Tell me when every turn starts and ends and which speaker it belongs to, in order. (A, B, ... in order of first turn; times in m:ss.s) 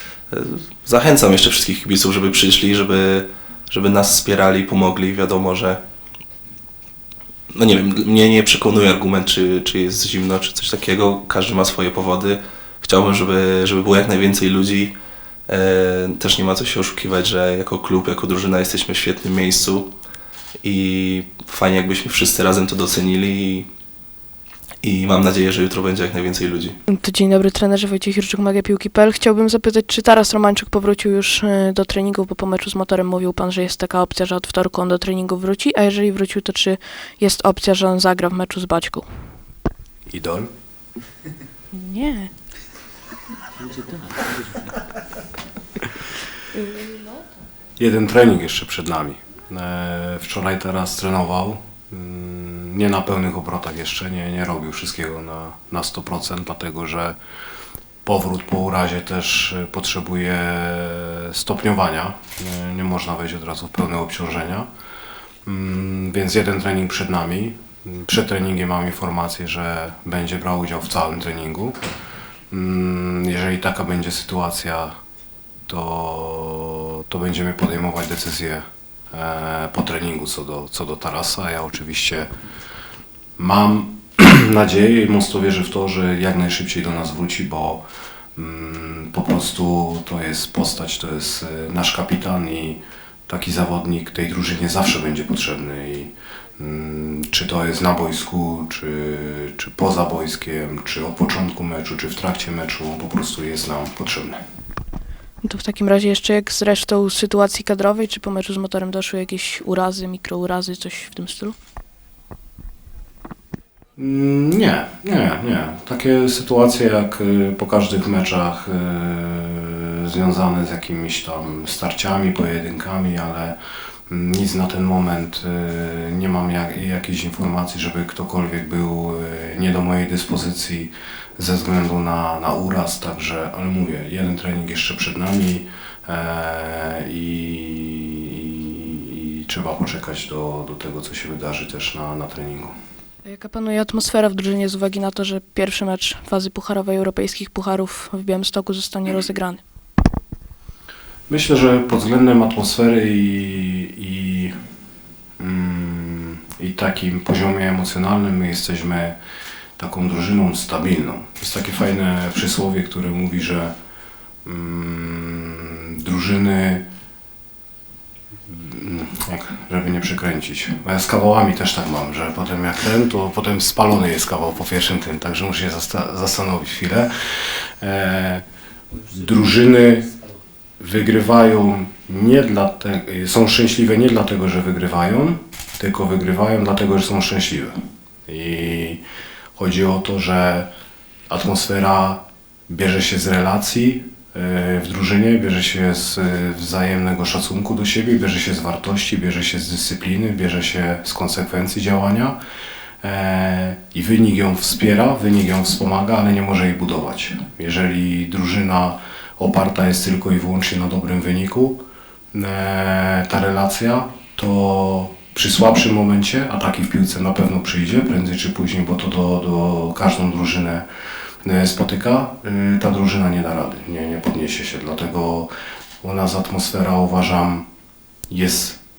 0:00.3-0:05.8 A
0:07.5-0:14.9 A
0:15.5-0:19.9 A
0:20.6-0:23.7 A
0:24.8-0:26.8 A
0:26.9-0:39.0 B
0:40.1-0:40.5 C
0:41.7-0:42.3 B
0:46.6-0:47.2 B
0:47.8-0:57.1 C
0:58.0-1:04.7 C
1:05.4-1:11.8 C
1:12.5-1:14.9 C
1:15.7-1:22.3 C
1:23.4-1:27.8 C
1:28.4-1:44.4 C
1:45.4-1:51.5 B
1:54.0-2:03.6 C
2:04.1-2:22.7 C
2:23.2-2:29.6 B
2:31.3-2:34.5 C
2:35.4-2:39.2 C
2:39.8-2:43.7 C
2:44.4-2:46.8 C
2:48.5-2:57.1 C
2:57.8-2:58.4 C
2:59.1-3:00.1 C
3:00.8-3:07.7 C
3:08.3-3:09.0 C
3:09.6-3:10.7 C
3:11.3-3:22.4 C
3:23.0-3:31.8 C
3:32.3-3:40.8 C
3:41.4-3:45.5 C
3:46.0-3:47.7 C
3:48.3-3:48.8 C